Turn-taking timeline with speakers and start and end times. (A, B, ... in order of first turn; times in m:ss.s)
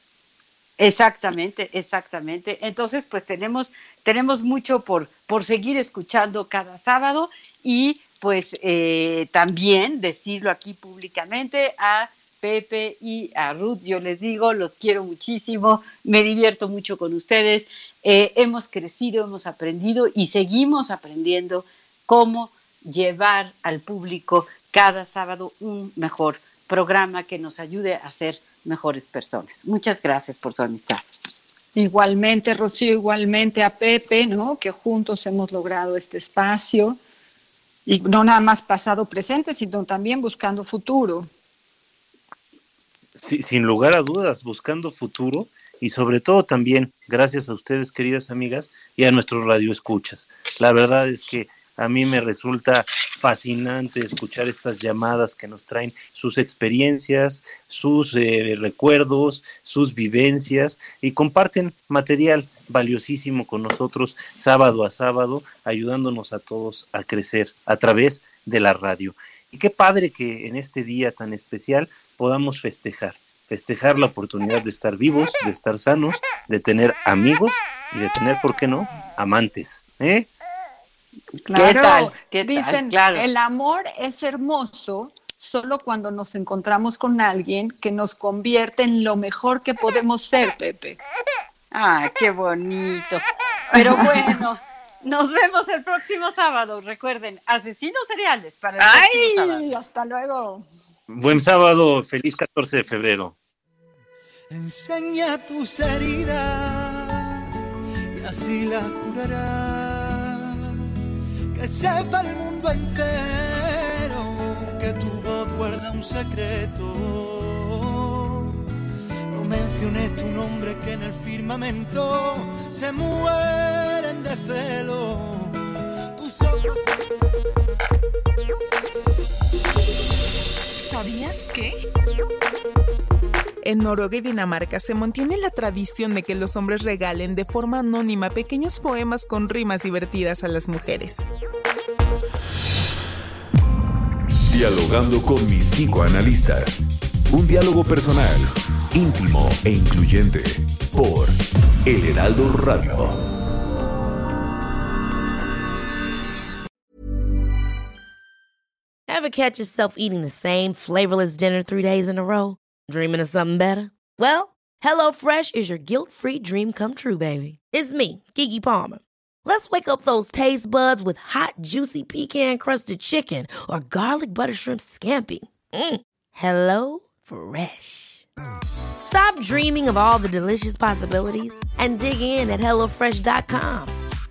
0:00.8-0:31.1 A
0:31.7-0:37.0 B
0:37.9-0:41.3 B
0:43.2-1:20.3 C
1:21.4-1:31.0 B
1:21.5-1:23.3 A
1:31.7-1:39.7 A
1:33.7-1:34.0 B
1:38.8-1:40.6 B
1:41.1-1:43.4 C
1:44.5-1:47.2 D
1:48.2-1:50.4 D
1:51.6-1:58.2 D
1:59.3-2:05.5 D
2:06.2-2:07.0 D
2:10.8-2:11.7 E
2:13.6-2:21.2 E
2:24.5-2:33.2 F
2:39.1-2:58.2 G
2:59.0-3:03.9 G